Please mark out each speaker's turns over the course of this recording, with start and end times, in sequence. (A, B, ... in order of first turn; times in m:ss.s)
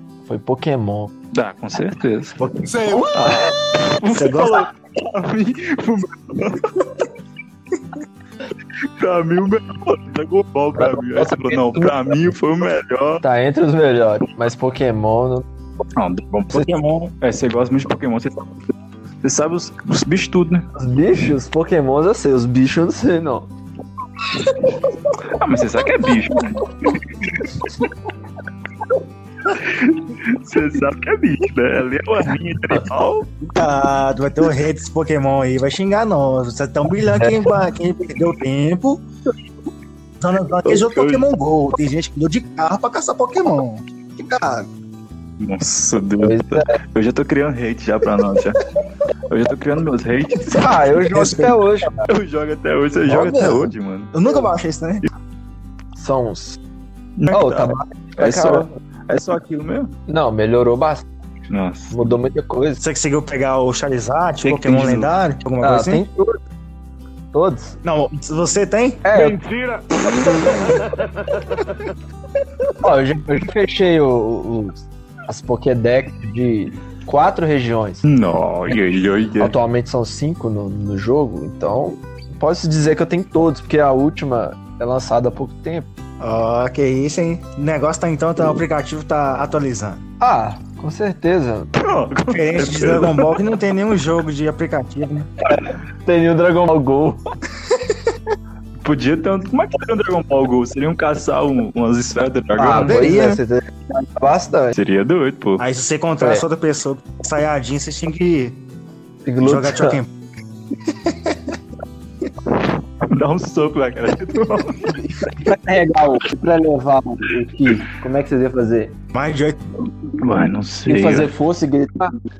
0:00.2-0:01.1 A
0:01.3-0:02.4 B
0:02.4-0:03.5 C
0:03.0-0:07.0 B
0:04.1-0:04.7 C
0:09.0-0:13.2 B
0:10.8-0:12.3 A
0:13.2-0:15.4 A
0:16.0-0:16.7 B
0:16.5-0:17.1 C
0:17.2-0:18.5 B
0:19.2-0:20.7 B
0:20.7-0:23.5 A
0:25.4-0:26.9 B
0:29.5-0:33.3 B
0:33.4-0:39.0 C
0:40.2-0:44.7 C
0:40.7-0:41.3 B
0:45.4-0:48.6 B
0:46.2-0:46.8 A
0:49.3-0:50.9 B
0:50.5-0:52.1 A
0:51.1-0:51.6 C
0:52.1-0:54.1 B
0:53.0-0:55.0 C
0:55.9-0:56.6 A
0:57.2-0:59.9 B
0:57.3-0:58.8 A
1:00.1-1:01.0 A
1:01.5-1:02.1 B
1:01.9-1:02.8 A
1:02.8-1:06.0 C
1:04.4-1:05.1 B
1:05.6-1:06.4 A
1:07.3-1:07.8 A
1:07.8-1:09.1 C
1:09.0-1:09.4 A
1:09.2-1:09.8 B
1:12.8-1:18.0 A
1:18.0-1:19.5 B
1:19.4-1:25.9 A
1:26.2-1:30.0 C
1:30.2-1:31.7 A
1:31.7-1:33.4 B
1:32.3-1:35.3 C
1:35.9-1:37.2 A
1:38.8-1:43.1 B
1:42.5-1:44.8 A
1:42.7-1:43.4 C
1:44.7-1:45.6 B
1:45.6-1:48.6 C
1:46.2-1:46.4 A
1:49.2-1:50.0 A
1:49.4-1:50.1 C
1:50.9-1:51.5 C
1:53.0-1:54.9 B
1:54.9-1:59.0 A
1:59.1-1:59.7 C
2:00.1-2:01.3 B
2:00.8-2:02.1 A